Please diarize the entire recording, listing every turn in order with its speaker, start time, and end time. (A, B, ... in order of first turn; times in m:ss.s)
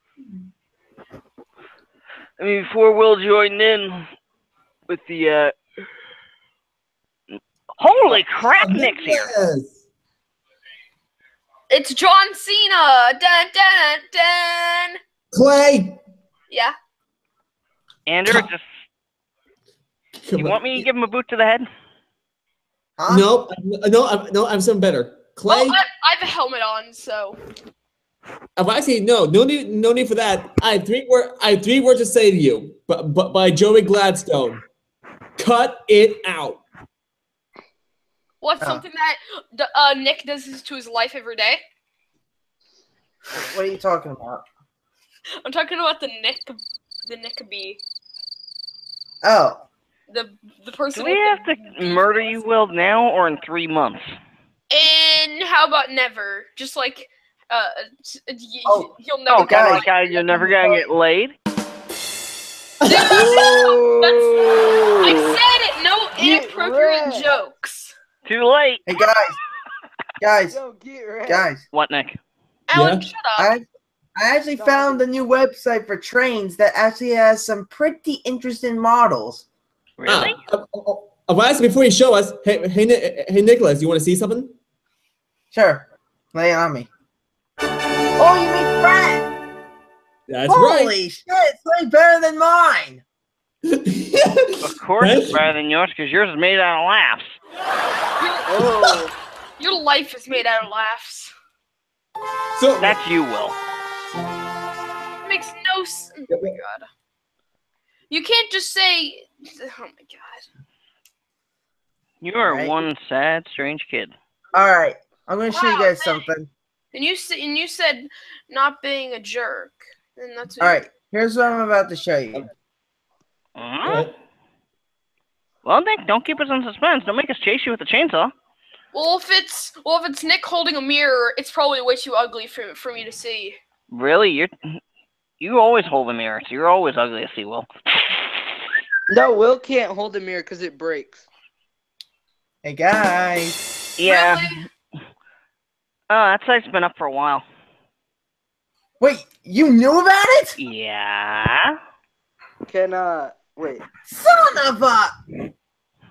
0:02.4-0:04.1 A
0:04.9-0:05.6 A
0:07.8-0:09.3 A
0:08.1-0:09.8 B
0:11.7-0:15.0 C
0:15.3-0:16.0 B
0:16.5-0:16.8 C
0:18.1-0:18.6 A
0:20.2-0:20.9 B
0:20.4-0:21.7 A
0:23.0-0:23.3 D
0:23.1-0:25.8 B
0:25.5-0:27.4 C
0:28.6-0:34.6 B
0:35.4-0:36.6 B
0:38.4-0:41.6 C
0:43.4-0:44.4 D
0:45.4-0:47.8 C
0:49.2-0:49.6 D
0:50.1-0:52.3 C
0:50.9-0:54.1 A
0:54.7-1:00.8 C
0:58.7-0:59.9 D
0:59.3-1:01.4 A
1:02.8-1:03.5 B
1:02.9-1:07.9 C
1:03.1-1:05.4 E
1:06.2-1:07.4 E
1:08.3-1:08.8 A
1:08.9-1:09.4 D
1:10.2-1:10.6 D
1:10.5-1:11.5 E
1:11.3-1:11.6 D
1:11.7-1:12.2 A
1:12.7-1:13.5 C
1:12.7-1:13.1 B
1:13.4-1:13.6 D
1:14.2-1:19.4 D
1:14.6-1:15.0 E
1:20.0-1:20.4 A
1:20.1-1:24.6 B
1:25.5-1:26.9 D
1:28.2-1:29.3 D
1:30.3-1:31.0 B
1:30.5-1:33.0 D
1:33.7-1:35.4 B
1:34.6-1:37.4 A
1:38.2-1:39.0 C
1:38.5-1:39.1 E
1:38.6-1:38.8 B
1:39.6-1:41.3 C
1:42.6-1:43.0 B
1:42.8-1:43.6 A
1:45.2-1:46.9 C
1:46.3-1:46.6 B
1:48.1-1:50.5 C
1:52.2-1:54.1 A
1:52.4-1:52.7 D
1:54.5-1:56.5 D
1:55.5-1:56.2 C
1:56.9-2:00.8 C
2:00.6-2:02.5 D
2:03.6-2:04.1 A
2:03.8-2:04.2 B
2:05.6-2:08.3 A
2:08.9-2:13.6 C
2:13.9-2:14.8 A
2:15.4-2:17.7 A
2:19.1-2:21.3 E
2:22.6-2:23.6 D
2:24.0-2:24.6 A
2:24.0-2:24.6 C
2:26.1-2:27.4 A
2:29.0-2:30.6 D
2:30.6-2:31.8 A
2:32.7-2:33.9 E
2:34.1-2:35.1 D